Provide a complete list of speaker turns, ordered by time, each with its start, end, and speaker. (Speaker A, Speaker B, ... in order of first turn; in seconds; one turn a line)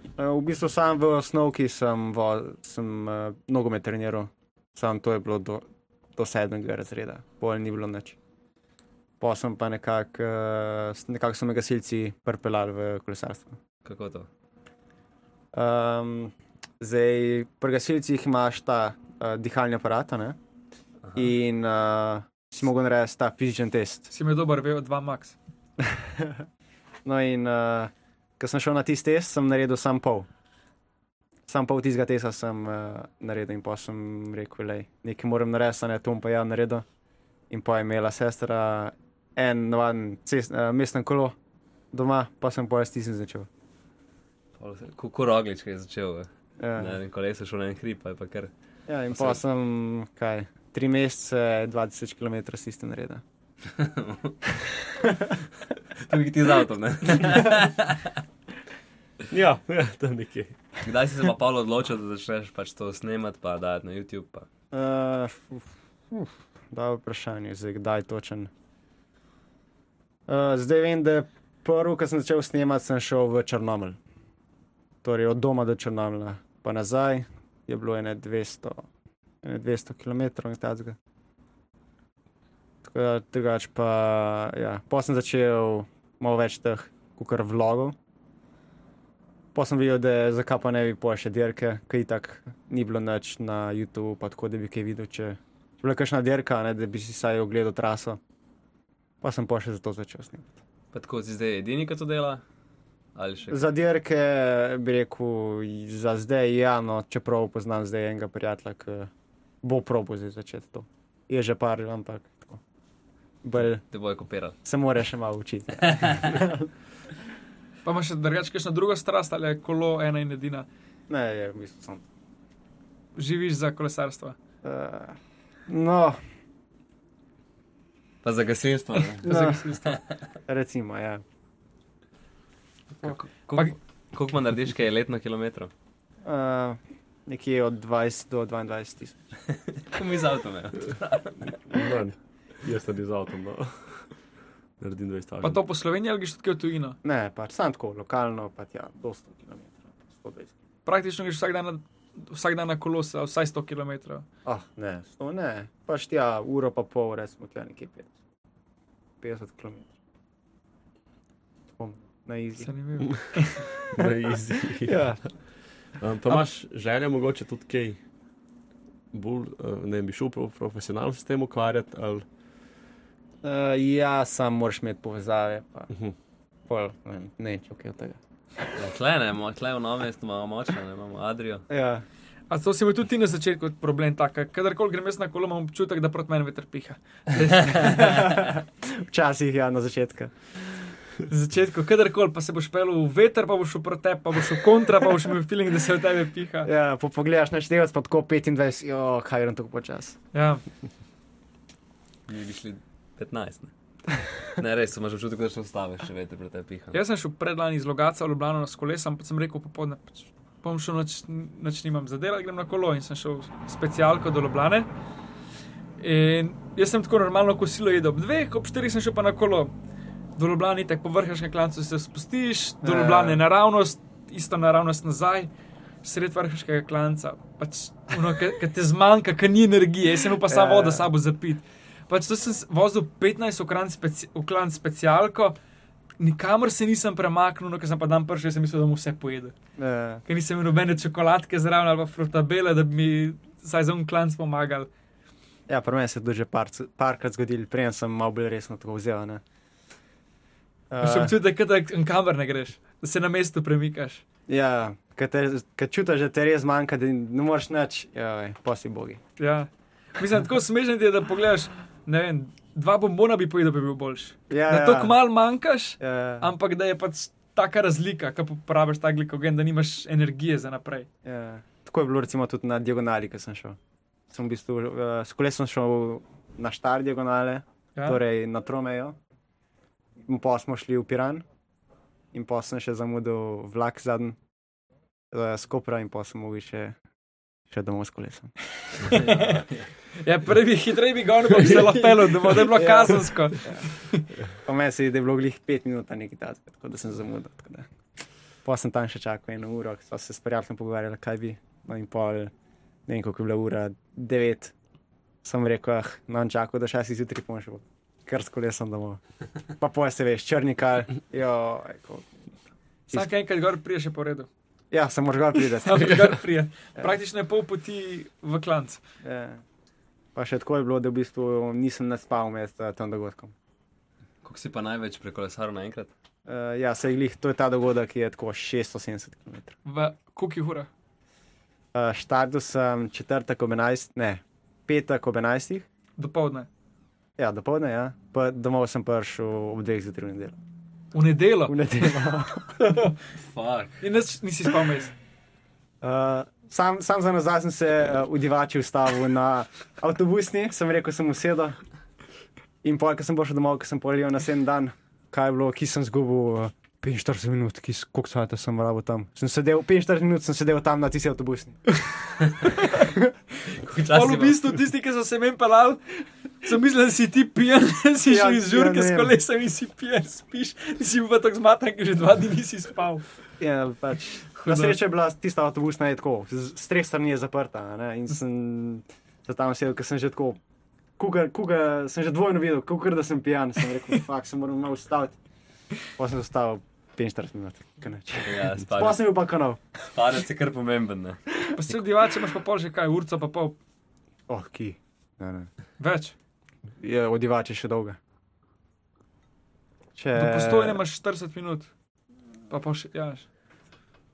Speaker A: 0.2-5.7
Speaker A: 6.2-8.2
Speaker A: 9.2-13.6
Speaker B: 13.8-14.3
Speaker A: 15.5-20.4
Speaker B: 21.0-21.3
Speaker A: 21.1-24.1
Speaker C: 24.1-25.4
Speaker A: 25.8-26.4
Speaker A: 27.1-30.3
Speaker A: 31.5-36.9
Speaker A: 37.5-41.4
Speaker A: 41.9-43.5
Speaker B: 44.6-48.5
Speaker A: 46.6-47.0
Speaker A: 48.9-53.2
Speaker B: 49.1-49.4
Speaker B: 53.7-54.4
Speaker A: 54.6-55.4
Speaker B: 56.0-58.2
Speaker D: 59.3-60.6
Speaker B: 60.8-64.5
Speaker A: 64.7-68.5
Speaker A: 70.3-74.0
Speaker A: 75.0-78.8
Speaker A: 79.4-81.0
Speaker A: 82.8-88.0
Speaker A: 89.5-98.2
Speaker A: 99.2-100.5
Speaker B: 100.9-102.4
Speaker B: 103.2-103.7
Speaker A: 103.5-109.1
Speaker A: 109.6-112.6
Speaker A: 113.4-113.8
Speaker B: 113.9-114.5
Speaker A: 114.6-116.7
Speaker B: 115.8-116.3
Speaker C: 117.9-120.7
Speaker A: 121.1-122.0
Speaker C: 123.2-124.4
Speaker A: 124.6-126.2
Speaker B: 128.2-129.3
Speaker C: 129.0-130.0
Speaker A: 129.2-129.8
Speaker A: 130.5-131.2
Speaker B: 133.0-135.7
Speaker A: 136.2-139.2
Speaker B: 139.8-141.8
Speaker D: 141.7-144.1
Speaker D: 144.8-145.6
Speaker C: 145.4-147.0
Speaker A: 147.0-150.5
Speaker C: 150.9-154.3
Speaker A: 154.4-158.1
Speaker A: 159.2-159.9
Speaker A: 161.8-162.7
Speaker C: 162.6-163.7
Speaker D: 163.8-165.1
Speaker A: 164.8-165.2
Speaker D: 166.0-168.0
Speaker D: 169.1-172.2
Speaker A: 173.4-175.9
Speaker A: 176.7-178.7
Speaker B: 178.8-181.7
Speaker A: 181.7-182.1
Speaker C: 182.5-188.4
Speaker B: 187.6-188.1
Speaker A: 187.9-190.9
Speaker C: 191.3-196.7
Speaker A: 196.6-200.2
Speaker C: 200.3-200.6
Speaker B: 202.3-203.7
Speaker B: 204.4-207.0
Speaker C: 206.9-214.9
Speaker C: 216.0-219.7
Speaker C: 220.4-225.5
Speaker A: 222.8-223.4
Speaker C: 226.0-235.6
Speaker A: 230.4-231.1
Speaker C: 236.2-239.5
Speaker A: 239.8-240.2
Speaker C: 240.3-244.9
Speaker A: 245.7-249.4
Speaker A: 250.9-251.3
Speaker C: 251.0-254.2
Speaker A: 254.5-259.2
Speaker C: 259.4-271.1
Speaker A: 264.5-265.2
Speaker A: 266.0-266.5
Speaker A: 271.2-273.8
Speaker A: 274.3-279.2
Speaker A: 280.2-281.4
Speaker A: 282.3-284.4
Speaker A: 285.3-287.0
Speaker A: 287.7-288.5
Speaker C: 289.0-289.6
Speaker B: 289.0-289.9
Speaker C: 290.2-294.2
Speaker A: 291.9-293.9
Speaker A: 294.5-297.9
Speaker A: 298.6-302.5
Speaker A: 303.1-304.7
Speaker A: 305.4-309.2
Speaker A: 309.8-312.5
Speaker C: 313.1-314.5
Speaker A: 314.9-316.3
Speaker C: 315.6-319.0
Speaker A: 319.2-319.6
Speaker A: 320.4-323.5
Speaker B: 324.4-326.1
Speaker A: 326.5-329.8
Speaker C: 329.9-330.9
Speaker A: 331.9-335.9
Speaker C: 336.2-336.7
Speaker A: 337.4-340.6
Speaker C: 341.1-341.8
Speaker A: 341.7-342.7
Speaker C: 342.8-343.2
Speaker B: 343.4-344.0
Speaker C: 344.0-345.1
Speaker A: 346.0-351.8
Speaker A: 352.8-361.8
Speaker A: 363.0-363.3
Speaker B: 363.7-364.6
Speaker C: 364.1-373.2
Speaker A: 368.3-369.3
Speaker A: 373.6-380.6
Speaker C: 374.5-375.0
Speaker A: 381.2-385.4
Speaker A: 386.2-389.8
Speaker B: 388.4-389.2
Speaker B: 390.1-391.4
Speaker C: 391.8-393.8
Speaker A: 394.5-395.7
Speaker C: 396.0-396.4
Speaker A: 397.0-398.2
Speaker A: 400.2-401.0
Speaker C: 400.3-401.9
Speaker C: 402.7-403.5